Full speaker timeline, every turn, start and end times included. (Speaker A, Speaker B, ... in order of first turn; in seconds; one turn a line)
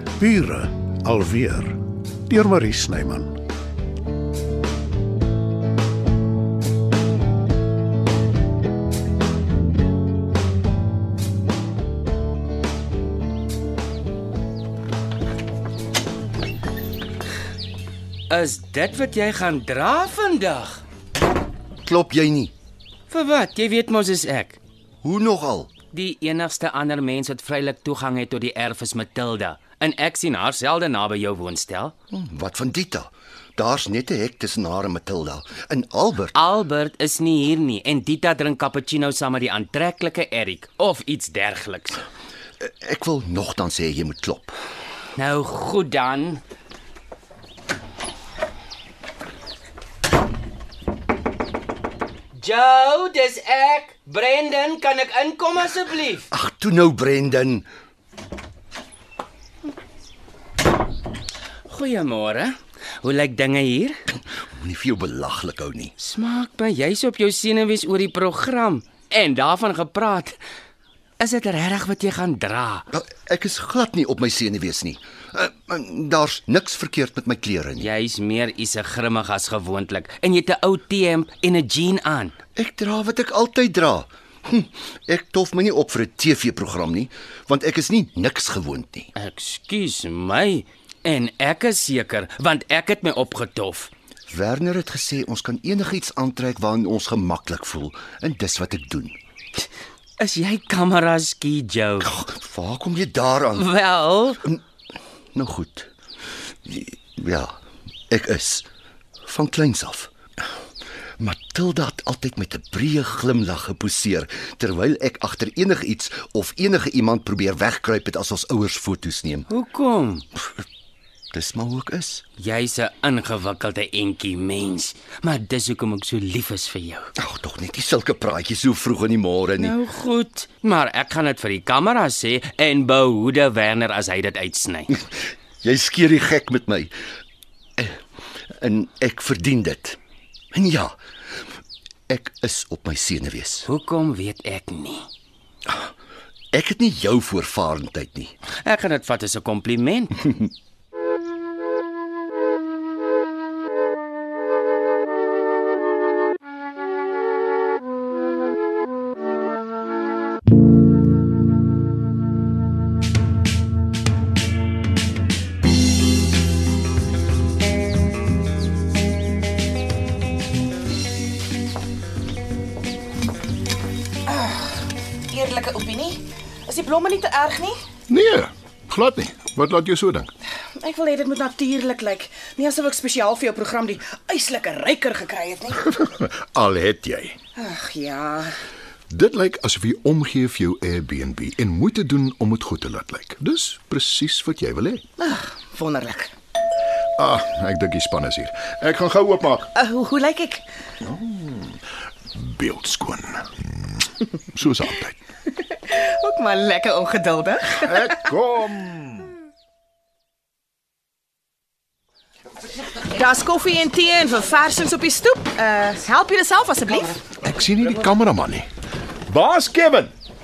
Speaker A: 0.2-3.4
Speaker B: 18.3-20.8
Speaker C: 21.8-22.5
Speaker B: 23.1-24.6
Speaker C: 25.0-25.7
Speaker B: 25.9-31.9
Speaker C: 32.1-36.3
Speaker B: 36.3-42.0
Speaker C: 42.6-44.5
Speaker B: 45.1-46.4
Speaker B: 52.4-56.3
Speaker C: 56.3-57.6
Speaker B: 61.7-64.0
Speaker C: 64.6-65.9
Speaker B: 66.0-70.4
Speaker B: 71.2-72.9
Speaker C: 72.9-77.8
Speaker B: 77.8-82.3
Speaker C: 82.6-89.1
Speaker B: 89.2-93.9
Speaker C: 94.3-99.2
Speaker B: 100.2-102.1
Speaker C: 102.0-103.6
Speaker B: 103.5-104.5
Speaker C: 105.3-105.9
Speaker C: 106.4-107.5
Speaker C: 108.1-108.6
Speaker C: 109.2-110.1
Speaker C: 111.2-119.5
Speaker B: 119.5-120.2
Speaker C: 121.3-122.2
Speaker B: 122.4-127.1
Speaker C: 127.2-129.7
Speaker B: 129.6-134.9
Speaker C: 135.6-136.9
Speaker C: 138.6-140.0
Speaker C: 140.5-140.9
Speaker C: 142.1-143.6
Speaker B: 143.6-145.1
Speaker C: 146.5-148.3
Speaker B: 148.6-150.5
Speaker D: 174.3-177.8
Speaker E: 178.1-180.3
Speaker D: 180.8-185.9
Speaker E: 185.9-187.3
Speaker D: 187.6-188.5
Speaker E: 189.1-195.0
Speaker D: 195.2-196.3
Speaker E: 197.2-199.7
Speaker D: 199.7-200.6
Speaker E: 201.0-201.8
Speaker E: 202.3-203.5
Speaker E: 204.5-205.2
Speaker D: 205.6-208.3
Speaker E: 207.8-209.3
Speaker D: 213.0-217.2
Speaker E: 217.4-218.7
Speaker E: 219.3-220.1